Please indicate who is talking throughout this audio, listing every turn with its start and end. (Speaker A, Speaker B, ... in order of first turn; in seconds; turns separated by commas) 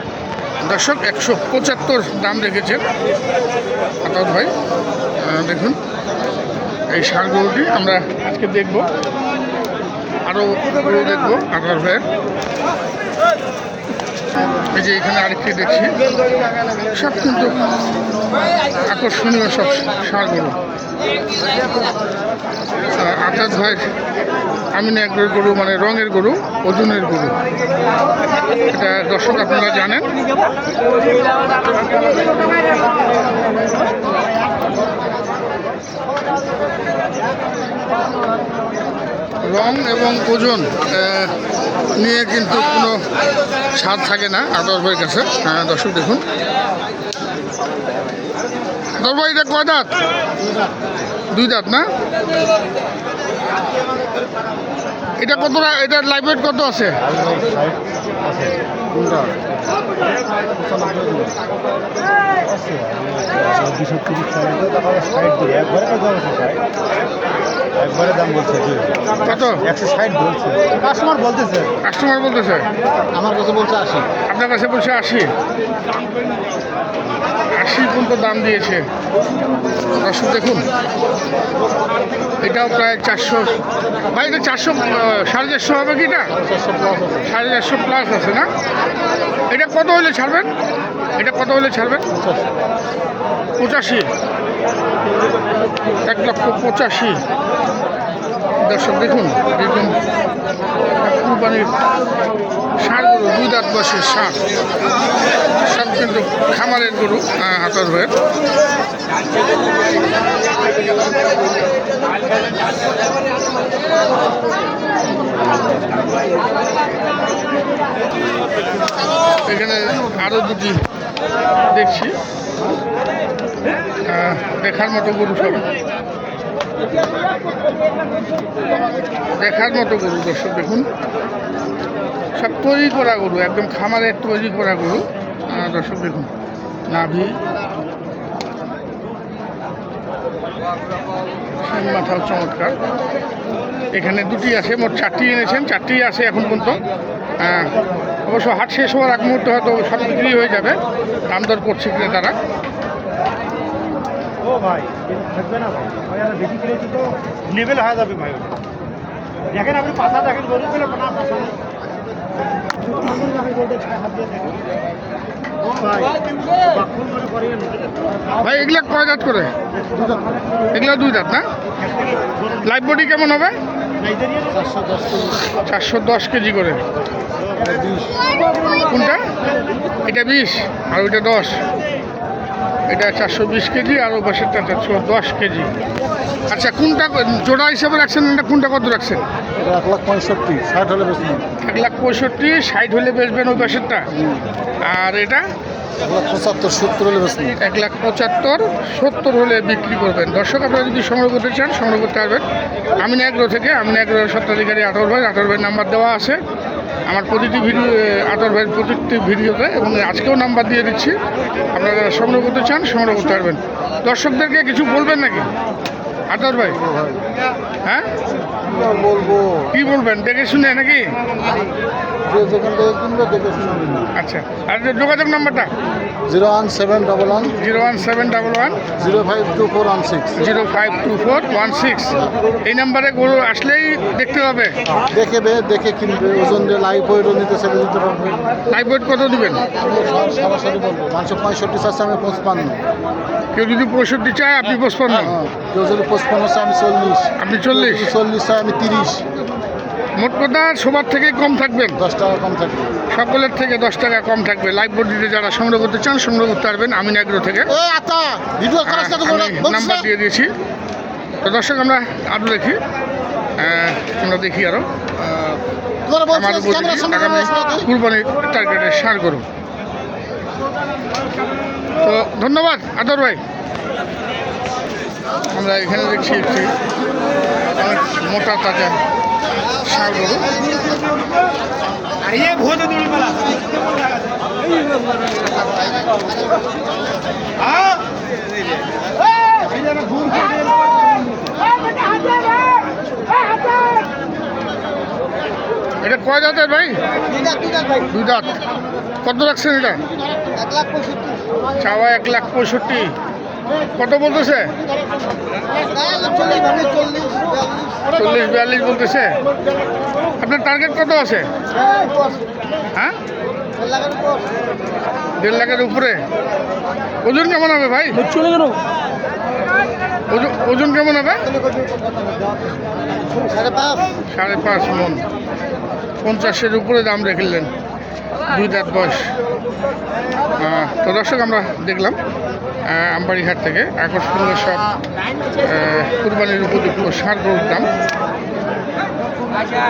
Speaker A: 0.6-2.8, Speaker A: 4.0-4.5, Speaker A: 5.2-5.8, Speaker A: 6.9-8.9, Speaker A: 10.2-12.0, Speaker A: 14.6-15.9, Speaker A: 16.9-17.6, Speaker A: 18.8-20.6, Speaker A: 22.9-23.9, Speaker A: 24.7-27.4, Speaker A: 28.6-30.1, Speaker A: 39.4-41.3, Speaker A: 41.9-43.0, Speaker A: 43.7-46.2, Speaker A: 49.0-49.9, Speaker B: 50.4-50.8, Speaker A: 51.3-51.9, Speaker A: 55.2-57.0, Speaker C: 57.0-58.5, Speaker B: 58.9-59.4, Speaker B: 60.7-61.3, Speaker C: 62.4-66.6, Speaker C: 67.8-71.7, Speaker A: 69.2-69.6, Speaker A: 71.8-72.7, Speaker B: 73.1-74.1, Speaker A: 74.2-75.3, Speaker A: 77.5-78.9, Speaker A: 80.0-80.7, Speaker A: 82.4-83.6, Speaker A: 84.1-86.3, Speaker B: 86.3-87.3, Speaker A: 87.2-88.5, Speaker A: 89.5-90.5, Speaker A: 91.2-92.0, Speaker B: 92.1-92.5, Speaker A: 93.6-94.1, Speaker A: 96.0-97.2, Speaker A: 98.6-100.0, Speaker A: 101.0-101.7, Speaker A: 102.8-104.4, Speaker A: 105.6-108.1, Speaker A: 119.4-120.8, Speaker A: 121.7-122.2, Speaker A: 124.0-125.7, Speaker A: 129.4-130.9, Speaker A: 132.3-136.3, Speaker A: 136.9-137.4, Speaker A: 141.6-142.8, Speaker A: 143.9-146.8, Speaker A: 147.4-147.7, Speaker A: 148.2-152.4, Speaker C: 154.4-158.6, Speaker C: 159.5-161.6, Speaker C: 163.0-164.6, Speaker C: 165.6-167.8, Speaker A: 168.4-169.5, Speaker B: 169.9-170.4, Speaker A: 170.7-171.5, Speaker A: 172.6-173.6, Speaker C: 174.0-174.5, Speaker B: 174.4-175.4, Speaker A: 175.5-176.8, Speaker B: 177.6-178.3, Speaker A: 178.8-179.2, Speaker A: 180.0-181.6, Speaker A: 182.9-185.7, Speaker A: 186.5-189.2, Speaker B: 189.6-191.4, Speaker A: 191.6-194.1, Speaker B: 194.1-194.5, Speaker A: 194.8-195.4, Speaker B: 196.0-197.6, Speaker A: 197.6-202.4, Speaker A: 203.0-206.4, Speaker A: 207.1-211.2, Speaker A: 211.7-215.5, Speaker A: 216.3-216.8, Speaker B: 216.6-217.2, Speaker A: 217.8-218.1, Speaker B: 218.6-219.7, Speaker A: 219.7-221.2, Speaker B: 222.2-224.1, Speaker A: 224.1-225.7, Speaker B: 226.2-227.6, Speaker A: 227.6-228.8, Speaker B: 228.9-230.4, Speaker A: 230.3-234.8, Speaker B: 234.9-238.5, Speaker A: 238.7-239.6, Speaker B: 239.7-242.8, Speaker A: 243.5-245.3, Speaker B: 245.1-249.2, Speaker A: 247.4-248.1, Speaker A: 250.2-252.0, Speaker B: 252.0-252.9, Speaker A: 253.1-257.7, Speaker B: 257.7-260.1, Speaker A: 258.8-260.5, Speaker A: 261.4-262.8, Speaker A: 263.6-265.6, Speaker B: 266.1-267.9, Speaker A: 266.3-269.4, Speaker A: 272.0-273.4, Speaker A: 275.5-276.7, Speaker A: 277.8-279.0, Speaker A: 279.8-280.5, Speaker C: 282.4-283.4, Speaker C: 290.1-290.6, Speaker A: 296.0-297.0, Speaker A: 298.1-298.6, Speaker A: 299.2-300.0, Speaker B: 300.7-301.2, Speaker A: 301.8-303.1, Speaker A: 303.9-304.7, Speaker B: 306.1-307.6, Speaker A: 308.1-309.4, Speaker A: 310.4-311.5, Speaker B: 311.9-312.2, Speaker B: 313.9-314.1, Speaker A: 315.4-316.2, Speaker A: 317.2-318.5, Speaker A: 320.3-321.5, Speaker B: 323.4-323.9, Speaker A: 324.3-325.2, Speaker A: 326.2-327.7, Speaker A: 328.4-329.3, Speaker A: 330.6-332.2, Speaker A: 332.8-334.9, Speaker A: 335.6-337.9